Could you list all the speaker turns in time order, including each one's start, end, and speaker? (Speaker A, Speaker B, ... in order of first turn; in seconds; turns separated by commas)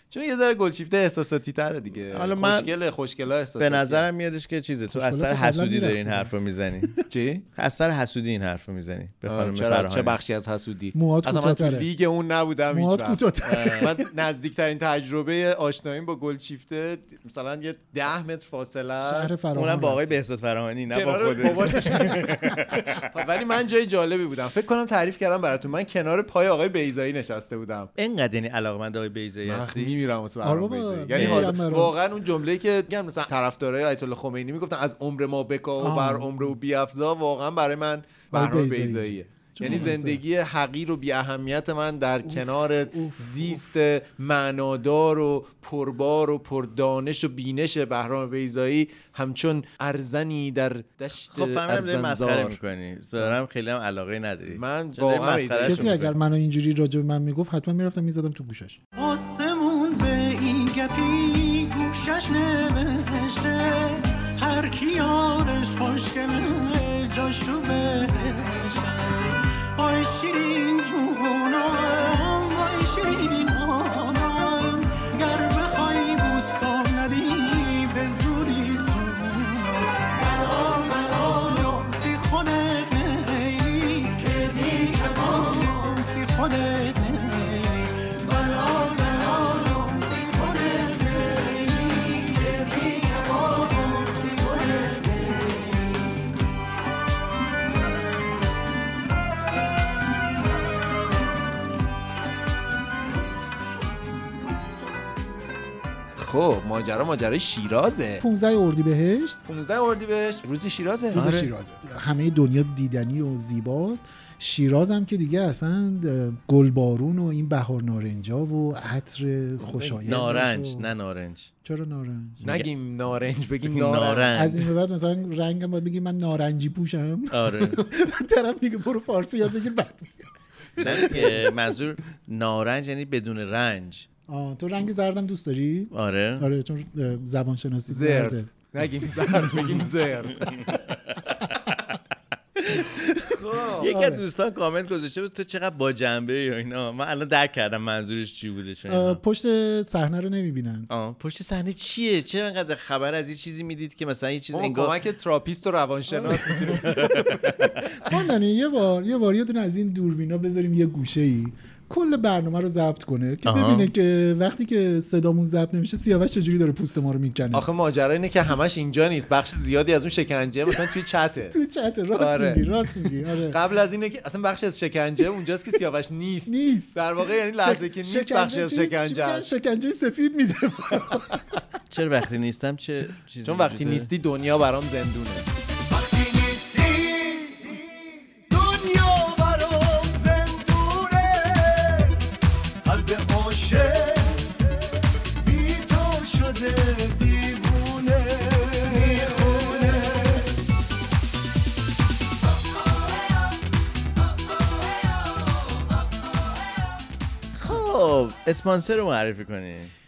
Speaker A: 0.1-4.1, Speaker B: 2.1-2.7, Speaker B: 3.6-7.0, Speaker C: 4.9-6.9, Speaker A: 7.1-7.4, Speaker B: 7.6-10.2, Speaker A: 9.3-19.4, Speaker C: 10.9-11.9, Speaker C: 12.7-14.0, Speaker B: 13.4-14.0, Speaker C: 19.0-20.2, Speaker B: 19.5-22.8, Speaker A: 20.9-27.9, Speaker C: 21.5-22.8, Speaker B: 28.0-29.9, Speaker A: 29.5-52.6, Speaker C: 30.4-31.9, Speaker B: 31.1-31.5, Speaker C: 35.8-36.5, Speaker C: 38.3-40.2, Speaker C: 42.2-43.6, Speaker B: 51.3-56.1, Speaker A: 54.5-56.1, Speaker C: 55.6-58.8, Speaker D: 59.0-96.0, Speaker A: 106.2-108.2, Speaker C: 108.2-109.4, Speaker A: 109.5-111.2, Speaker C: 111.1-120.9, Speaker B: 111.2-111.5, Speaker B: 119.8-121.5, Speaker C: 121.6-122.4, Speaker B: 122.4-122.7, Speaker A: 122.4-124.3, Speaker B: 123.7-124.7, Speaker C: 124.3-131.5, Speaker B: 127.3-127.8, Speaker B: 130.8-134.1, Speaker A: 130.8-131.2, Speaker C: 134.3-138.5, Speaker B: 135.9-136.5, Speaker A: 137.9-140.8, Speaker C: 139.2-139.7, Speaker B: 142.6-149.2, Speaker A: 143.5-143.8, Speaker C: 143.8-144.2, Speaker C: 148.9-150.9, Speaker B: 150.9-154.9, Speaker A: 154.5-157.9, Speaker C: 156.1-157.1, Speaker B: 157.0-157.7, Speaker C: 158.0-167.7, Speaker B: 163.4-163.9, Speaker A: 167.5-171.6, Speaker C: 171.5-173.6, Speaker A: 172.2-172.7, Speaker A: 173.5-179.5, Speaker C: 176.5-177.0, Speaker C: 177.5-181.6, Speaker B: 181.9-184.1, Speaker A: 183.4-185.5, Speaker D: 185.9-192.1, Speaker D: 192.8-194.6, Speaker D: 195.4-200.5, Speaker B: 207.6-209.9